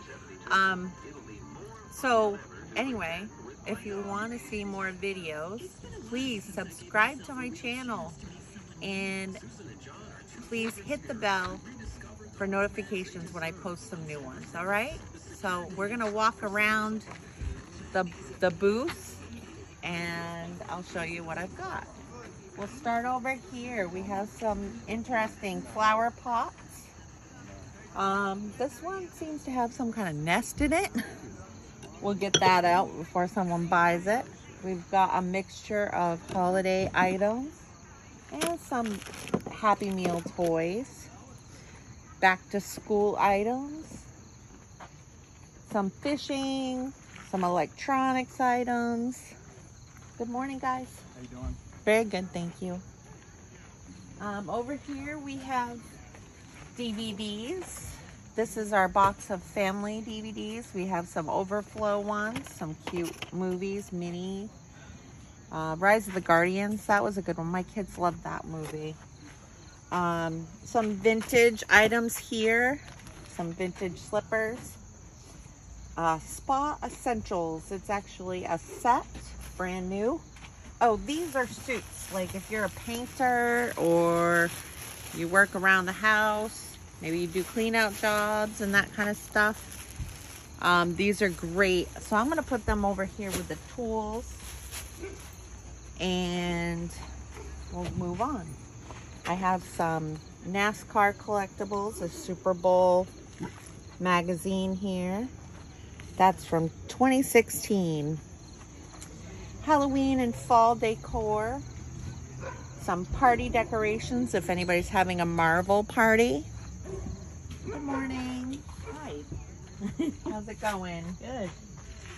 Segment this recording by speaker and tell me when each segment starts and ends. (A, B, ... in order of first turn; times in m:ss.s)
0:00.5-0:01.0 A
0:01.9-0:08.2 A
0:08.8-0:09.4 A
0:10.4-0:11.6 A
0:12.4-0:17.1 A
0:17.9-0:19.2 A
0:19.8-0:21.9 A
0:22.6-0:26.9 A
0:28.0-0:31.0 A
0:32.0-0:37.6 A
0:38.3-0:41.1 A
0:42.2-0:44.1 A
0:45.7-0:49.3 A
0:50.2-0:52.8 A
0:54.2-0:55.9 A
0:56.8-1:04.5 A
1:05.5-1:09.0 A
1:09.9-1:14.8 A
1:16.0-1:20.2 A
1:20.8-1:24.6 A
1:25.1-1:29.7 A
1:30.6-1:34.5 A
1:36.0-1:37.0 A
1:37.7-1:38.6 A
1:39.3-1:43.1 A
1:44.0-1:45.3 A
1:46.2-1:48.2 A
1:49.6-1:51.7 A
1:52.8-1:56.5 A
1:57.7-1:59.3 A
1:59.8-2:01.6 A